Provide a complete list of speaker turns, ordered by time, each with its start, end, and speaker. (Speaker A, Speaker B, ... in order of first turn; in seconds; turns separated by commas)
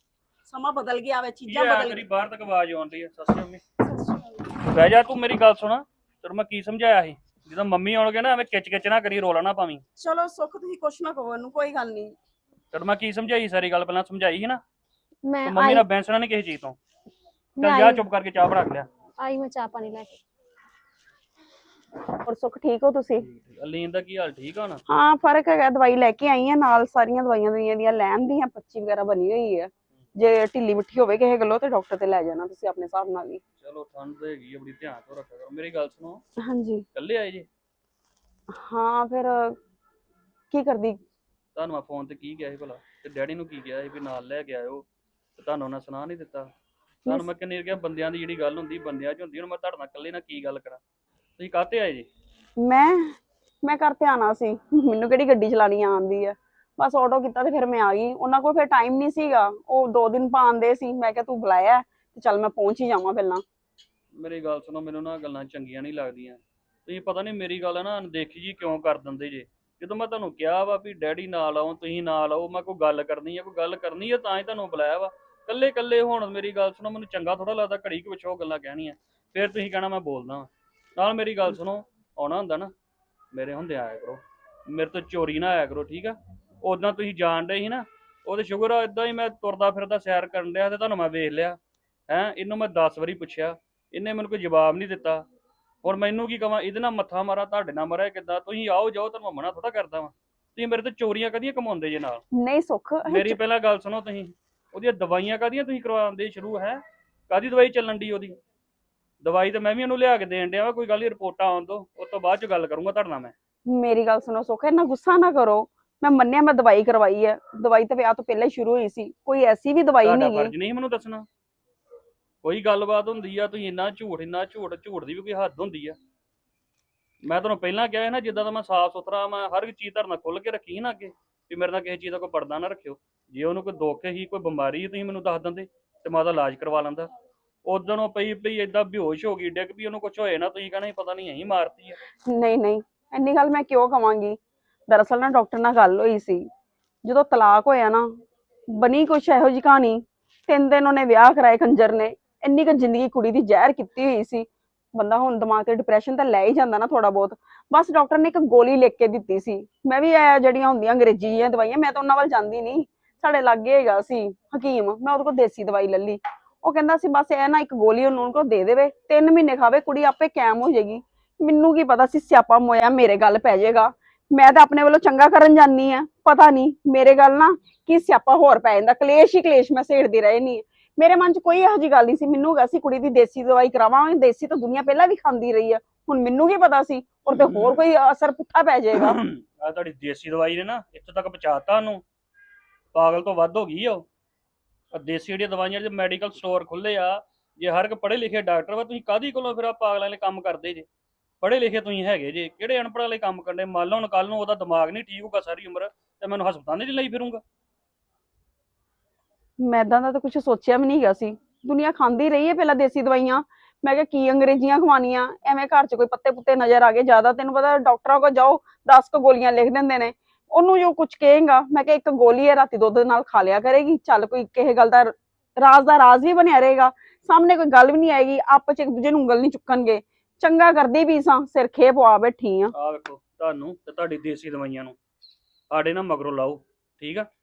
Speaker A: 0.5-2.0, Speaker B: 1.5-3.6, Speaker A: 3.8-4.4, Speaker B: 4.7-9.8, Speaker A: 9.9-12.1, Speaker B: 12.7-14.6, Speaker C: 15.2-15.8, Speaker B: 15.4-16.8, Speaker C: 17.6-18.0, Speaker B: 17.6-18.9, Speaker C: 19.2-20.1, Speaker A: 22.2-23.2, Speaker B: 23.2-24.8, Speaker A: 24.9-33.4, Speaker B: 33.6-36.2, Speaker A: 36.4-36.9, Speaker B: 36.9-37.5, Speaker A: 38.5-39.6, Speaker A: 40.5-41.0, Speaker B: 41.5-44.9, Speaker B: 45.4-46.5, Speaker B: 47.0-50.8, Speaker B: 51.4-52.1, Speaker A: 52.6-63.4, Speaker B: 64.1-82.7, Speaker B: 83.3-91.6, Speaker B: 92.1-95.2, Speaker B: 95.8-102.2, Speaker A: 102.3-103.4, Speaker B: 103.0-108.4, Speaker B: 109.2-113.3, Speaker A: 113.7-120.5, Speaker B: 120.0-121.3, Speaker B: 122.4-126.0, Speaker B: 127.2-137.1, Speaker B: 137.6-142.0, Speaker A: 142.3-146.4, Speaker A: 147.0-148.1, Speaker A: 148.7-189.2, Speaker B: 187.3-187.8, Speaker B: 189.0-192.0, Speaker B: 192.9-194.1, Speaker B: 194.9-200.9, Speaker B: 201.4-207.4, Speaker A: 209.6-232.7, Speaker B: 232.8-234.9, Speaker B: 235.7-237.3